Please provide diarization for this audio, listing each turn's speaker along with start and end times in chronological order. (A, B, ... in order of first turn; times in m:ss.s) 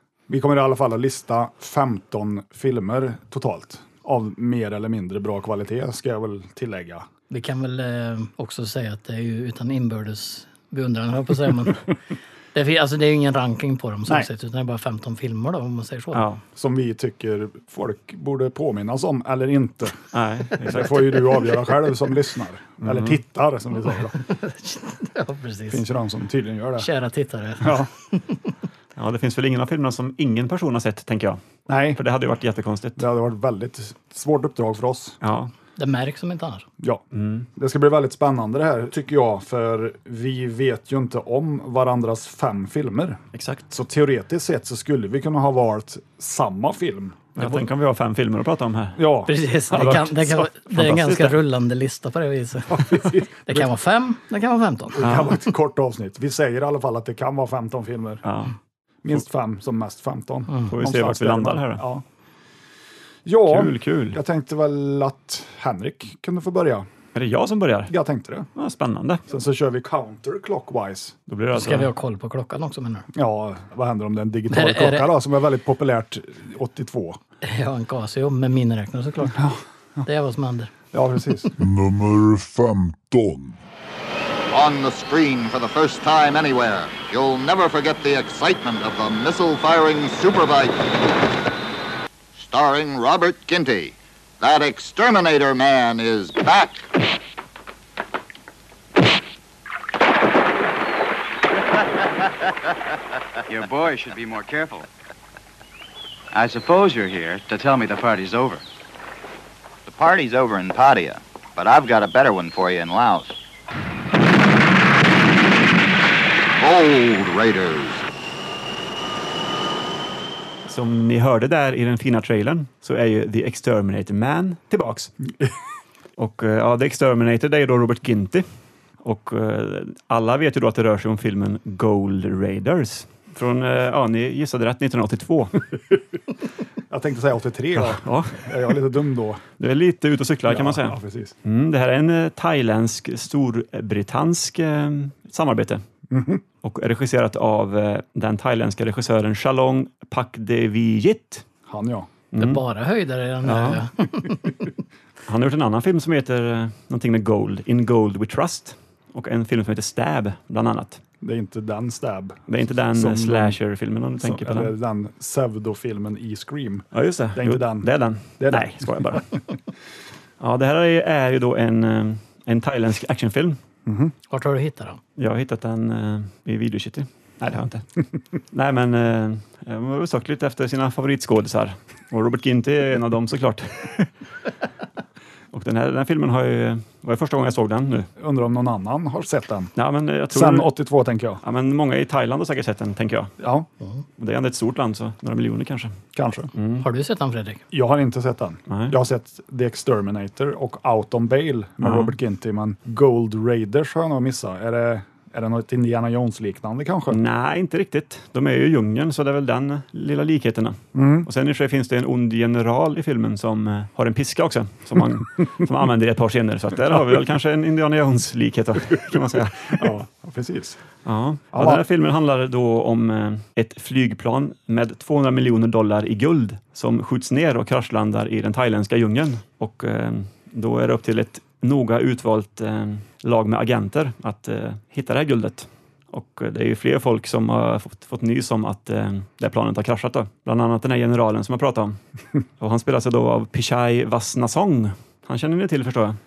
0:00.3-0:07.0 A
0:07.3-0:11.9 B
0:12.5-0:16.2 B
0:16.1-0:16.4 C
0:16.6-0:20.0 A
0:20.1-0:21.3 C
0:20.6-0:24.2 A
0:22.8-0:23.2 C
0:24.2-0:25.8 B
0:25.7-0:26.9 A
0:26.8-0:28.4 B
0:27.6-0:27.9 A
0:29.0-0:31.4 C
0:31.7-0:32.0 A
0:31.9-0:33.0 C
0:33.0-0:35.2 A
0:35.2-0:35.5 C
0:35.8-0:36.7 B
0:37.1-0:37.5 C
0:37.6-0:47.6 A
0:43.3-0:43.6 C
0:47.4-0:49.0 C
0:49.0-0:49.9 A
0:49.3-0:55.1 B
0:49.7-0:51.4 C
0:52.7-0:53.6 A
0:54.9-0:58.2 A
0:55.0-0:55.4 C
0:58.2-0:58.5 C
0:59.0-1:02.0 A
1:00.7-1:01.8 C
1:03.2-1:06.9 A
1:03.4-1:04.2 C
1:07.1-1:07.9 C
1:07.9-1:08.5 A
1:08.6-1:09.2 C
1:09.3-1:11.1 A
1:11.3-1:11.9 C
1:11.5-1:13.0 B
1:13.1-1:17.2 A
1:14.5-1:15.1 B
1:17.4-1:19.5 B
1:19.3-1:19.6 A
1:20.0-1:20.7 B
1:20.9-1:21.5 A
1:21.6-1:23.6 D
1:24.5-1:30.9 E
1:32.4-1:36.8 E
1:43.5-1:44.9 F
1:46.3-1:48.6 F
1:49.9-1:53.3 E
1:56.6-1:58.0 E
2:00.6-2:05.1 C
2:06.2-2:08.4 C
2:09.0-2:15.5 C
2:16.9-2:19.4 A
2:17.7-2:18.8 C
2:19.6-2:25.8 C
2:20.5-2:21.3 A
2:26.1-2:26.4 A
2:26.6-2:31.4 C
2:31.7-2:32.1 A
2:32.3-2:32.6 C
2:32.4-2:34.7 B
2:33.4-2:33.8 C
2:35.3-2:41.0 C
2:41.2-2:43.6 A
2:42.5-2:44.7 C
2:44.2-2:47.9 A
2:46.9-2:49.2 C
2:48.4-2:49.2 A
2:50.4-2:53.6 C
2:53.8-2:54.1 A
2:54.3-2:55.0 B
2:55.2-2:57.8 C
2:58.5-3:04.1 C
3:05.5-3:08.1 C
3:08.2-3:09.7 A
3:09.8-3:10.7 C
3:10.3-3:11.4 A
3:11.4-3:13.3 C
3:13.4-3:13.7 A
3:14.2-3:16.0 C
3:16.1-3:16.5 A
3:16.6-3:16.8 C
3:16.8-3:17.6 B
3:17.7-3:27.2 A
3:18.7-3:18.9 C
3:21.8-3:22.1 C
3:27.1-3:39.9 C
3:30.9-3:31.3 A
3:39.7-3:40.8 A
3:41.0-4:02.0 C
3:41.5-3:41.8 A
4:02.6-4:06.2 C